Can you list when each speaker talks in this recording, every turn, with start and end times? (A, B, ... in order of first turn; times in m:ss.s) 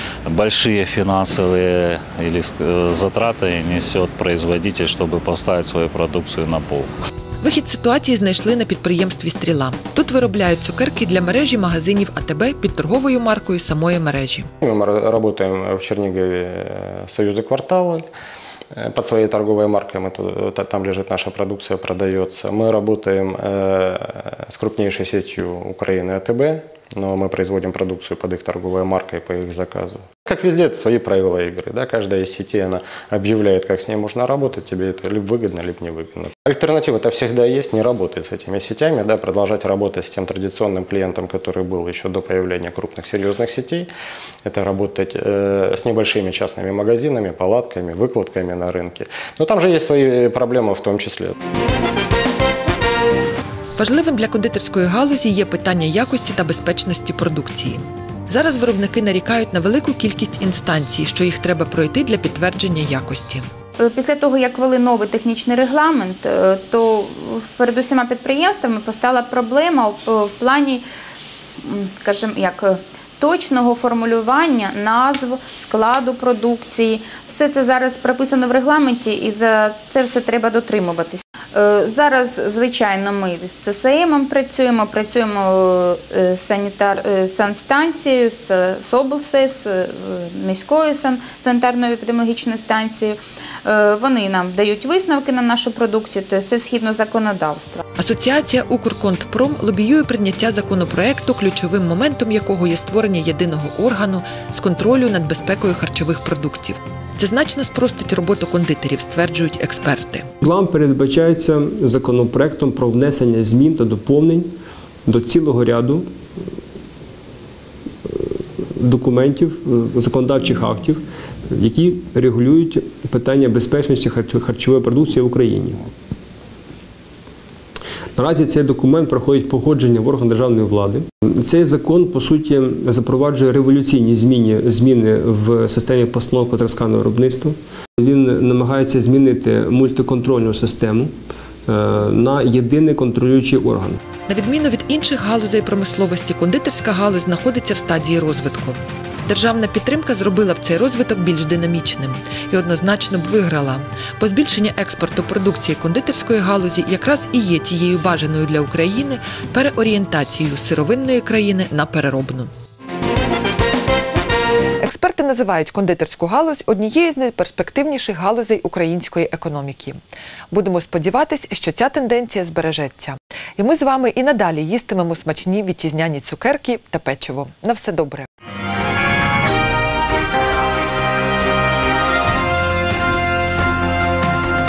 0:00.3-0:06.9 A
0:07.4-0:14.5 B
0:14.6-0:18.0 C
0:18.7-0:43.9 C
0:44.4-0:51.3 C
0:53.8-1:03.5 B
1:03.8-1:10.8 D
1:11.6-1:37.8 D
1:38.0-1:50.3 B
1:50.4-1:54.5 E
1:55.1-1:56.0 E
1:58.0-2:05.8 E
2:08.2-2:21.1 E
2:21.7-2:24.0 E
2:24.3-2:42.5 B
2:44.8-2:50.0 B
2:50.5-2:58.3 B